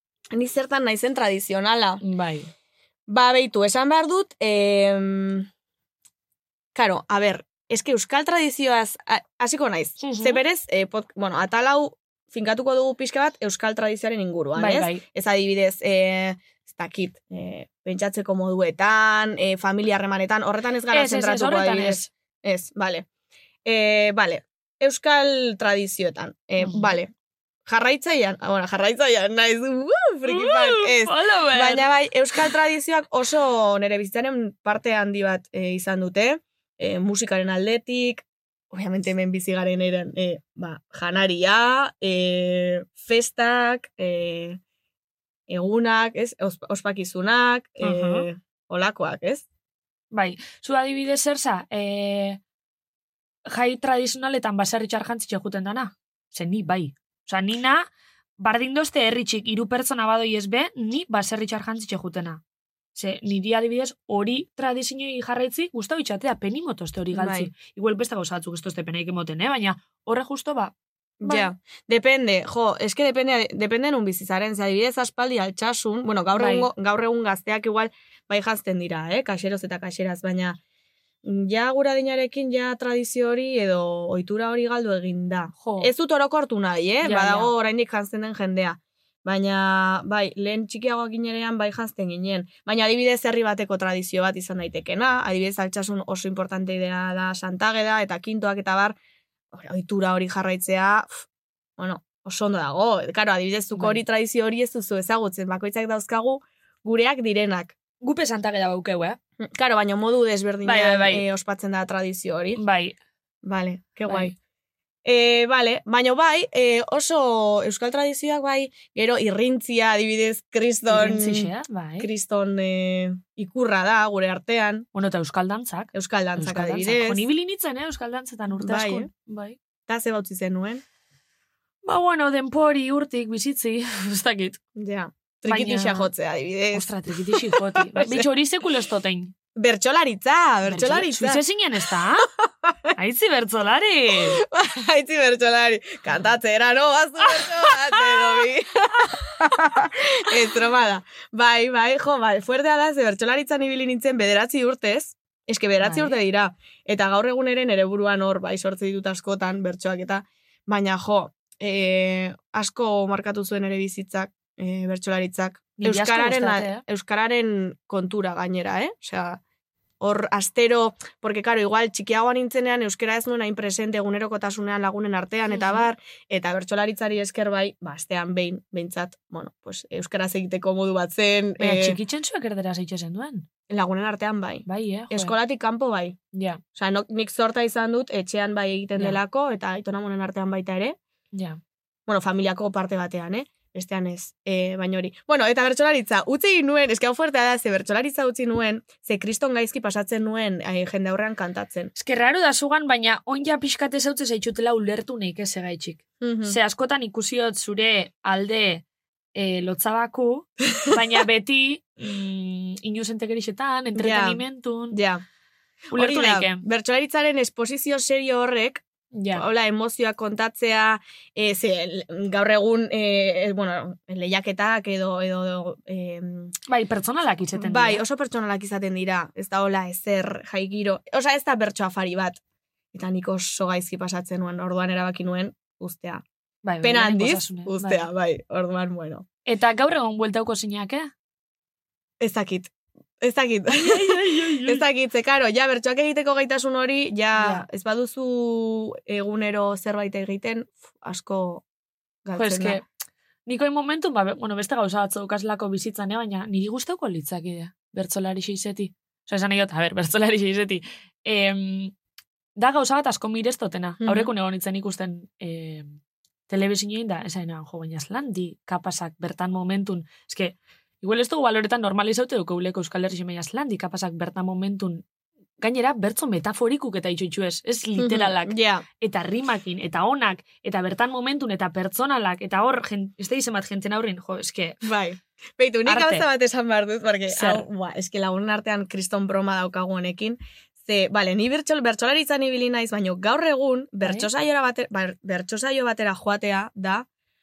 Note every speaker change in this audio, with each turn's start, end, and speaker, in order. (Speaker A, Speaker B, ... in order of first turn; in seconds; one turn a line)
Speaker A: 0.3-2.0
Speaker B: 2.0-2.5
Speaker A: 3.1-5.5
Speaker A: 6.7-23.1
Speaker B: 10.0-10.4
Speaker B: 14.6-15.0
Speaker B: 20.9-22.1
Speaker A: 23.6-27.1
Speaker B: 26.6-26.9
Speaker A: 27.7-44.6
Speaker B: 30.3-31.9
Speaker A: 45.5-49.4
Speaker B: 47.8-48.3
Speaker B: 50.1-52.4
Speaker B: 53.5-57.9
Speaker B: 58.4-62.4
Speaker B: 62.9-70.7
Speaker A: 67.1-67.5
Speaker A: 71.2-80.6
Speaker B: 71.2-71.5
Speaker B: 76.4-76.7
Speaker A: 81.2-99.0
Speaker B: 85.6-85.9
Speaker B: 87.0-87.5
Speaker A: 99.5-101.2
Speaker A: 101.8-107.7
Speaker B: 103.7-104.0
Speaker B: 108.0-109.2
Speaker A: 109.4-112.6
Speaker B: 110.6-111.2
Speaker B: 112.5-113.0
Speaker A: 113.4-114.3
Speaker A: 115.0-124.8
Speaker B: 120.9-122.1
Speaker B: 124.9-129.6
Speaker A: 125.9-127.3
Speaker A: 128.5-129.1
Speaker A: 129.9-130.8
Speaker B: 131.8-134.6
Speaker A: 134.8-138.3
Speaker B: 135.4-136.1
Speaker B: 136.7-139.3
Speaker A: 139.5-141.4
Speaker B: 140.7-142.3
Speaker A: 142.4-142.8
Speaker B: 142.9-144.4
Speaker A: 144.2-169.4
Speaker B: 147.4-148.4
Speaker B: 155.8-156.2
Speaker B: 165.8-166.8
Speaker A: 170.0-182.0
Speaker B: 175.5-175.9
Speaker B: 181.6-183.4
Speaker A: 183.7-186.2
Speaker B: 184.7-185.3
Speaker B: 186.3-186.6
Speaker A: 186.7-191.0
Speaker B: 191.3-191.6
Speaker A: 192.1-201.9
Speaker B: 201.9-208.8
Speaker A: 206.2-206.6
Speaker B: 209.3-215.0
Speaker A: 210.8-211.0
Speaker A: 213.9-215.2
Speaker A: 215.9-226.5
Speaker B: 215.9-216.6
Speaker B: 219.1-219.4
Speaker B: 226.7-228.0
Speaker A: 227.5-232.4
Speaker A: 232.9-236.2
Speaker B: 236.6-238.1
Speaker A: 236.8-239.2
Speaker B: 239.4-241.1
Speaker A: 242.2-251.6
Speaker B: 243.7-244.8
Speaker B: 247.4-247.6
Speaker A: 252.2-252.8
Speaker B: 252.3-252.8
Speaker B: 253.4-261.9
Speaker B: 262.6-266.0
Speaker A: 264.0-264.3
Speaker B: 266.5-275.0
Speaker B: 275.6-284.8
Speaker A: 278.0-278.8
Speaker A: 284.8-297.1
Speaker B: 285.9-286.2
Speaker B: 287.3-287.6
Speaker B: 294.0-294.3